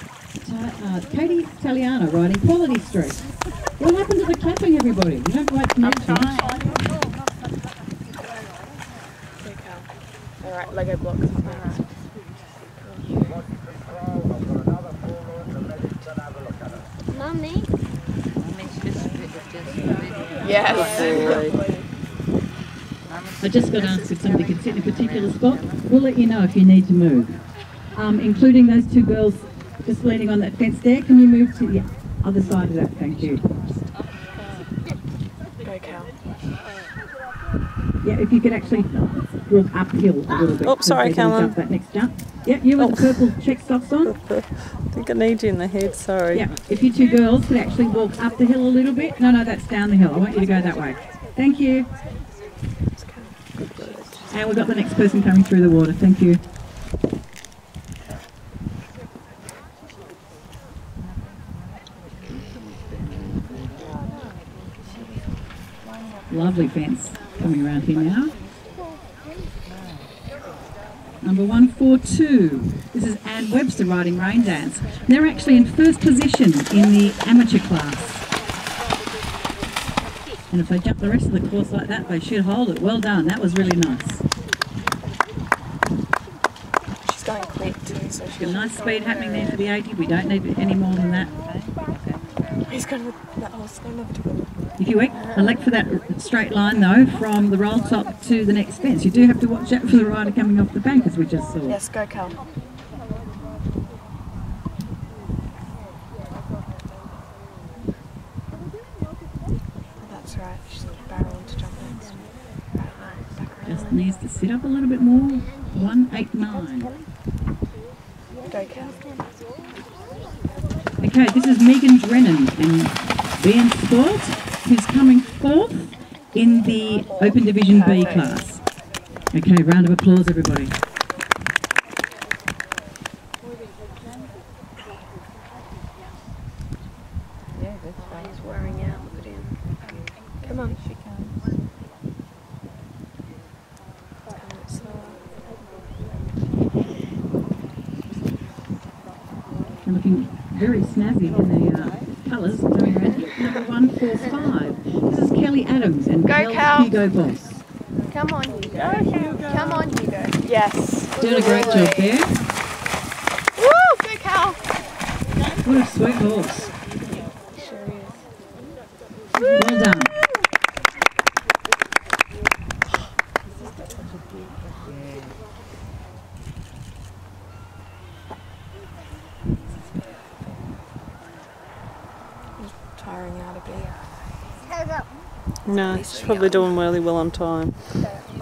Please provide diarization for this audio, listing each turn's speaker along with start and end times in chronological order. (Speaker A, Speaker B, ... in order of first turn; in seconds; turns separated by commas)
Speaker A: 0.4-6.4, Speaker B: 9.4-11.9, Speaker B: 12.6-13.4, Speaker B: 20.4-21.8, Speaker C: 20.9-21.5, Speaker A: 23.4-33.4, Speaker B: 35.6-36.1, Speaker A: 38.0-44.2, Speaker C: 40.6-41.6, Speaker C: 42.8-46.5, Speaker A: 46.3-51.9, Speaker B: 53.0-54.8, Speaker C: 53.6-54.2, Speaker A: 54.3-56.4, Speaker A: 66.3-68.4, Speaker A: 71.2-78.2, Speaker A: 80.5-84.2, Speaker B: 87.0-89.6, Speaker A: 88.4-91.3, Speaker B: 92.7-94.5, Speaker A: 94.8-101.8, Speaker B: 101.6-102.4, Speaker B: 110.0-114.0, Speaker A: 113.6-116.9, Speaker B: 118.5-119.0, Speaker A: 121.0-128.7, Speaker B: 127.2-128.5, Speaker A: 129.3-130.7, Speaker B: 137.9-139.6, Speaker B: 140.4-140.8, Speaker B: 144.3-145.2, Speaker A: 149.8-157.5, Speaker B: 156.2-157.0, Speaker D: 158.1-160.4, Speaker C: 158.8-159.9, Speaker B: 160.4-161.6, Speaker A: 161.2-162.4, Speaker D: 161.3-161.8, Speaker D: 163.6-164.4, Speaker B: 163.8-164.6, Speaker A: 165.6-166.7, Speaker B: 167.5-168.2, Speaker A: 169.6-170.1, Speaker B: 182.6-184.1, Speaker C: 185.7-187.8, Speaker B: 185.8-186.7